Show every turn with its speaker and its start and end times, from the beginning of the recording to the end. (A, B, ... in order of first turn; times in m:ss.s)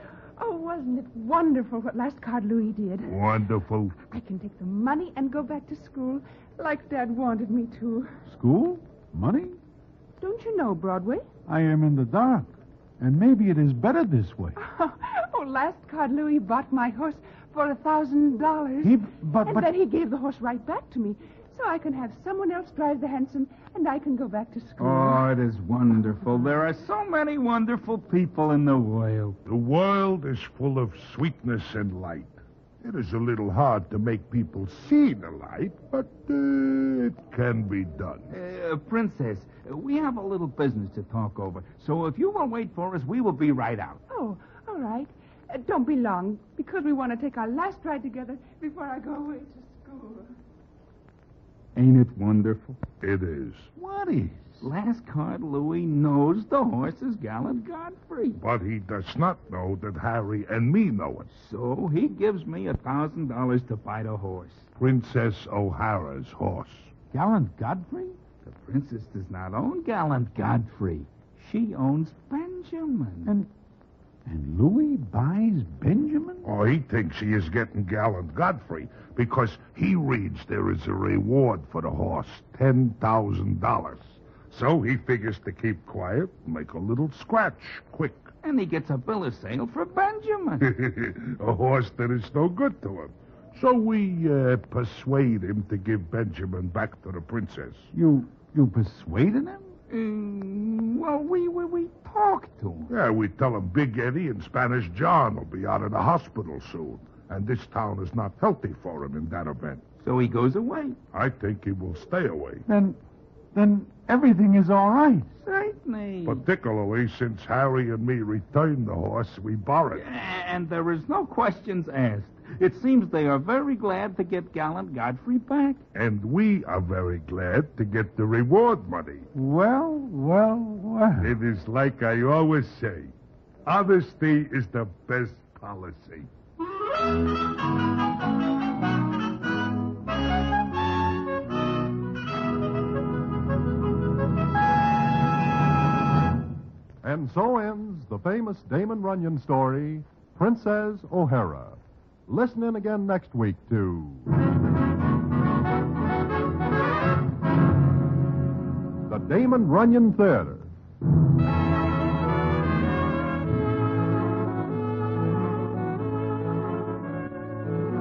0:00.4-0:03.2 A
0:03.0-0:04.0 B
0:04.1-0:08.1 A
0:08.3-0:09.6 C
0:10.2-0:11.3 A
0:11.5-0:14.6 C
0:14.6-0:25.3 A
0:18.8-0:19.7 C
0:24.8-0:29.4 D
0:29.5-0:38.3 B
0:38.3-0:44.0 D
0:44.1-0:50.3 A
0:51.8-0:52.8 D
0:53.0-0:53.7 B
0:53.8-0:54.6 C
0:54.6-0:58.4 D
0:58.4-1:01.3 B
1:01.3-1:04.7 D
1:04.8-1:06.9 B
1:07.1-1:08.2 C
1:08.4-1:13.3 D
1:13.2-1:13.5 C
1:14.3-1:16.5 C
1:16.4-1:28.3 B
1:28.4-1:30.7 D
1:30.6-1:37.9 B
1:37.9-1:39.7 C
1:39.9-1:42.9 D
1:42.9-1:49.8 B
1:50.0-1:51.0 D
1:51.1-1:52.6 B
1:52.7-1:53.0 C
1:53.5-1:55.3 C
1:55.4-1:56.4 D
1:56.2-2:00.0 B
1:59.9-2:05.8 D
2:05.9-2:09.3 B
2:09.3-2:11.3 C
2:11.2-2:13.1 B
2:13.7-2:16.3 B
2:27.0-2:34.3 E
2:39.1-2:40.7 E